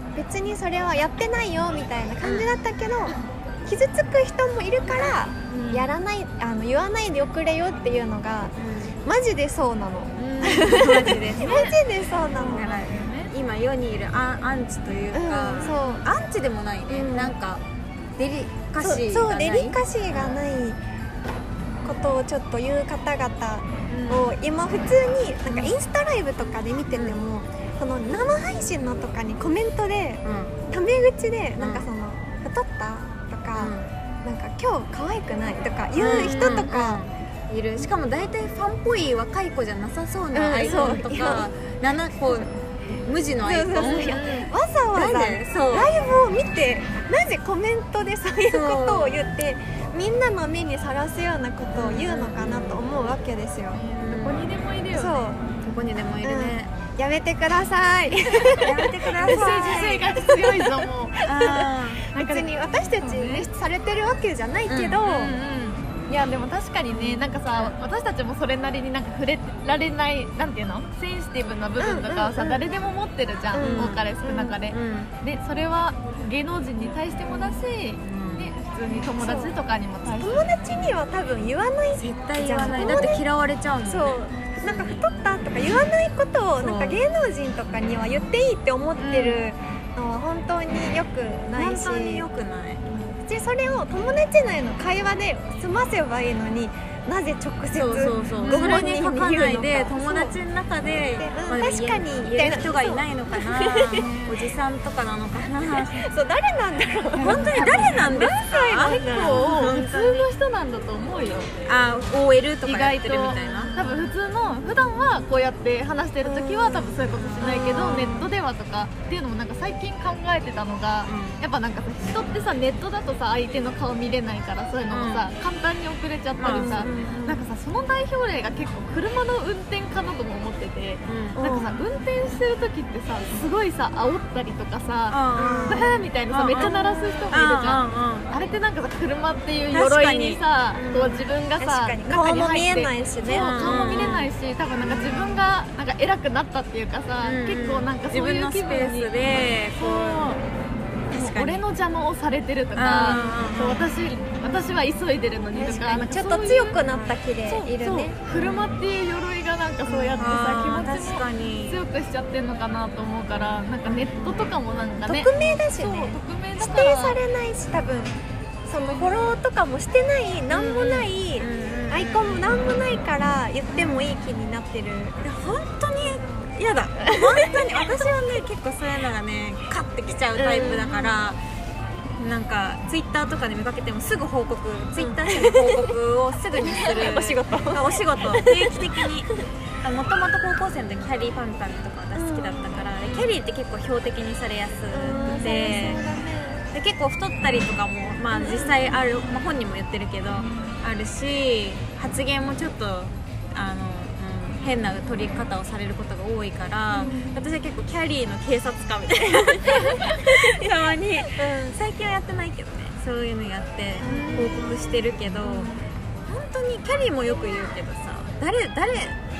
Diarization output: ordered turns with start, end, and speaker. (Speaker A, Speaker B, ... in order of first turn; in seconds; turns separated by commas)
Speaker A: 0.1-12.7, Speaker B: 2.2-2.5, Speaker C: 5.5-5.9, Speaker B: 8.6-8.9, Speaker C: 10.2-13.3, Speaker B: 10.4-11.6, Speaker B: 12.5-17.6, Speaker A: 15.1-16.0, Speaker A: 16.9-17.3, Speaker B: 18.2-20.4, Speaker A: 18.8-20.8, Speaker A: 21.8-37.0, Speaker B: 23.9-24.3, Speaker B: 25.4-25.8, Speaker B: 26.9-27.2, Speaker B: 30.2-30.6, Speaker B: 31.6-31.9, Speaker B: 33.5-33.9, Speaker B: 36.0-42.5, Speaker C: 36.1-36.5, Speaker A: 40.3-41.5, Speaker C: 40.6-41.0, Speaker B: 43.0-46.0, Speaker A: 43.4-53.8, Speaker C: 43.8-44.4, Speaker B: 48.5-49.2, Speaker B: 51.7-52.8, Speaker C: 53.7-55.5, Speaker B: 54.0-54.5, Speaker A: 54.9-55.4, Speaker B: 55.5-56.7, Speaker A: 56.2-65.3, Speaker B: 58.6-59.9, Speaker C: 59.2-61.2, Speaker B: 61.2-62.0, Speaker C: 62.1-63.5, Speaker B: 64.7-65.0, Speaker C: 65.0-80.5, Speaker B: 67.5-67.7, Speaker A: 71.8-72.6, Speaker A: 73.5-74.6, Speaker B: 73.6-74.0, Speaker B: 74.7-75.1, Speaker B: 78.0-78.5, Speaker A: 79.2-79.5, Speaker A: 80.1-83.2, Speaker B: 82.0-85.0, Speaker A: 83.8-92.2, Speaker B: 86.6-87.0, Speaker C: 89.0-89.4, Speaker B: 91.5-92.8, Speaker A: 92.8-100.4, Speaker B: 97.7-106.0, Speaker C: 98.4-99.2, Speaker A: 101.2-104.0, Speaker C: 103.9-104.5, Speaker A: 105.7-109.5, Speaker C: 107.1-111.5, Speaker B: 107.2-110.3, Speaker B: 111.6-113.8, Speaker C: 112.6-149.1, Speaker A: 113.5-114.1, Speaker A: 116.2-118.3, Speaker B: 117.1-118.1, Speaker B: 121.0-121.4, Speaker B: 124.9-125.2, Speaker B: 126.4-127.0, Speaker A: 126.5-127.5, Speaker B: 131.1-131.4, Speaker A: 131.3-131.8, Speaker B: 135.1-136.7, Speaker A: 135.4-136.0, Speaker A: 136.6-137.3, Speaker B: 137.3-138.3, Speaker B: 139.7-140.4, Speaker A: 140.7-144.2, Speaker B: 143.3-144.3, Speaker A: 144.8-145.4, Speaker B: 147.2-150.4, Speaker C: 149.7-150.4, Speaker B: 151.1-151.6, Speaker C: 151.1-156.9, Speaker B: 152.7-153.9, Speaker A: 155.5-158.2, Speaker C: 157.4-167.2, Speaker B: 158.3-158.8, Speaker A: 159.8-160.3, Speaker B: 160.2-161.8, Speaker B: 163.8-164.6, Speaker A: 165.0-175.2, Speaker C: 168.8-169.3, Speaker C: 170.5-171.0, Speaker B: 171.4-172.5, Speaker B: 175.2-181.4, Speaker A: 176.0-176.5, Speaker A: 177.0-178.1, Speaker A: 180.3-181.2, Speaker B: 182.2-189.3, Speaker A: 184.9-185.9, Speaker A: 186.6-189.4, Speaker B: 189.8-196.1, Speaker A: 192.1-193.1, Speaker A: 194.9-196.6, Speaker B: 196.7-215.7, Speaker A: 198.3-198.8, Speaker A: 206.9-207.4, Speaker A: 211.3-211.8, Speaker A: 214.0-215.8, Speaker B: 216.3-219.2